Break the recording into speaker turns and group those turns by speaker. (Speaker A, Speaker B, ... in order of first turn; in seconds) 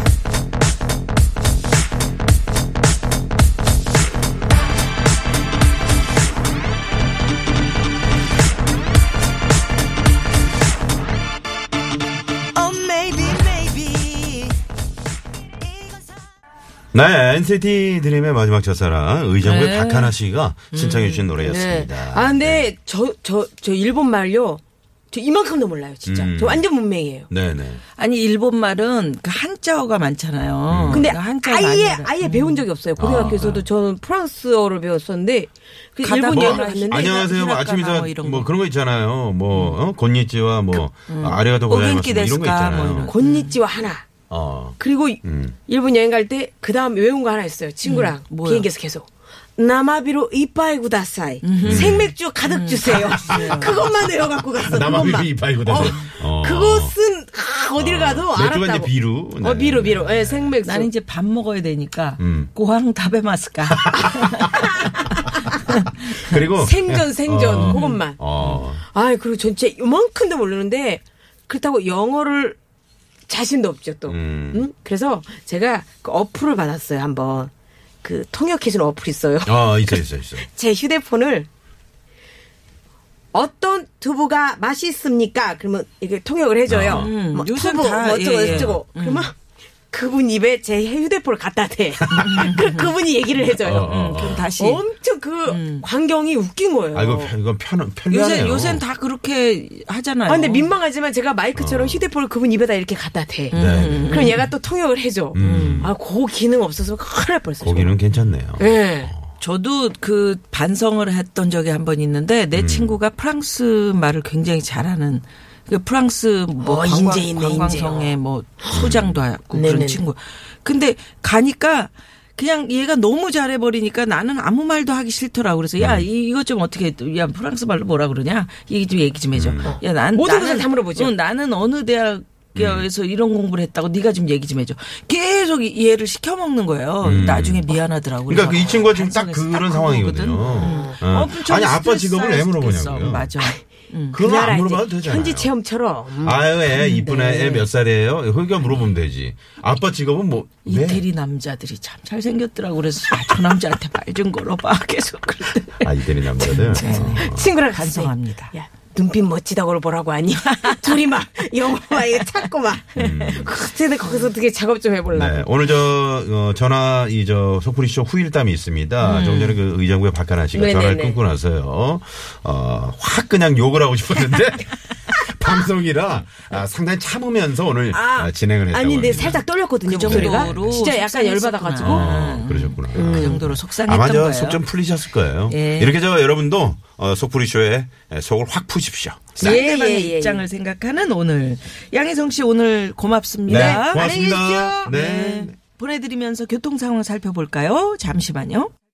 Speaker A: 12.7-14.5, 19.4-20.1, 20.7-21.3, 27.9-32.6, 33.2-33.5, 36.0-38.5, 39.5-39.8, 41.1-43.5, 47.8-48.7, 51.4-53.9, 55.8-56.1, 60.6-64.5, 65.5-65.7, 67.6-68.6, 86.9-89.3, 92.1-92.9, 93.7-94.8, 95.5-95.8, 98.1-100.7, 103.5-104.5, 105.4-105.9, 109.4-144.2, 146.7-147.6, 150.6-158.5, 160.6-161.0, 163.0-163.5, 169.0-169.6, 179.2-184.6, 185.5-185.9, 189.4-194.1, 194.8-198.7
Speaker B: 12.9-13.6, 21.4-27.3, 30.9-37.2, 43.1-44.1, 44.8-60.9, 64.4-65.1, 66.5-68.2, 68.8-72.6, 73.3-77.5, 78.0-81.5, 83.3-89.3, 89.9-93.9, 94.5-97.3, 100.3-108.0, 108.6-109.1, 116.6-118.2, 119.5-120.0, 129.6-131.1, 140.4-141.0, 144.1-147.1, 156.4-165.6, 170.5-171.2, 177.9-182.1, 182.9-183.4, 189.4-190.4, 193.4-194.9
Speaker C: 16.9-22.7, 26.0-26.7, 27.3-27.8, 30.7-31.1, 33.0-33.6, 36.3-43.1, 44.3-45.6, 51.6-52.1, 53.0-53.5, 54.6-56.9, 57.8-60.5, 62.2-62.5, 63.7-64.2, 66.0-68.8, 74.1-74.6, 79.4-80.5, 86.7-87.2, 88.5-88.8, 92.1-92.5, 93.5-94.5, 96.9-98.8, 101.5-102.1, 103.5-104.4, 105.3-105.9, 107.6-109.3, 112.5-113.0, 118.7-119.2, 125.8-126.1, 129.3-129.8, 132.5-132.9, 137.0-143.3, 144.1-145.5, 146.2-151.0, 155.8-157.5, 162.9-163.6, 165.1-179.4, 180.0-180.7, 181.8-189.6, 193.5-195.6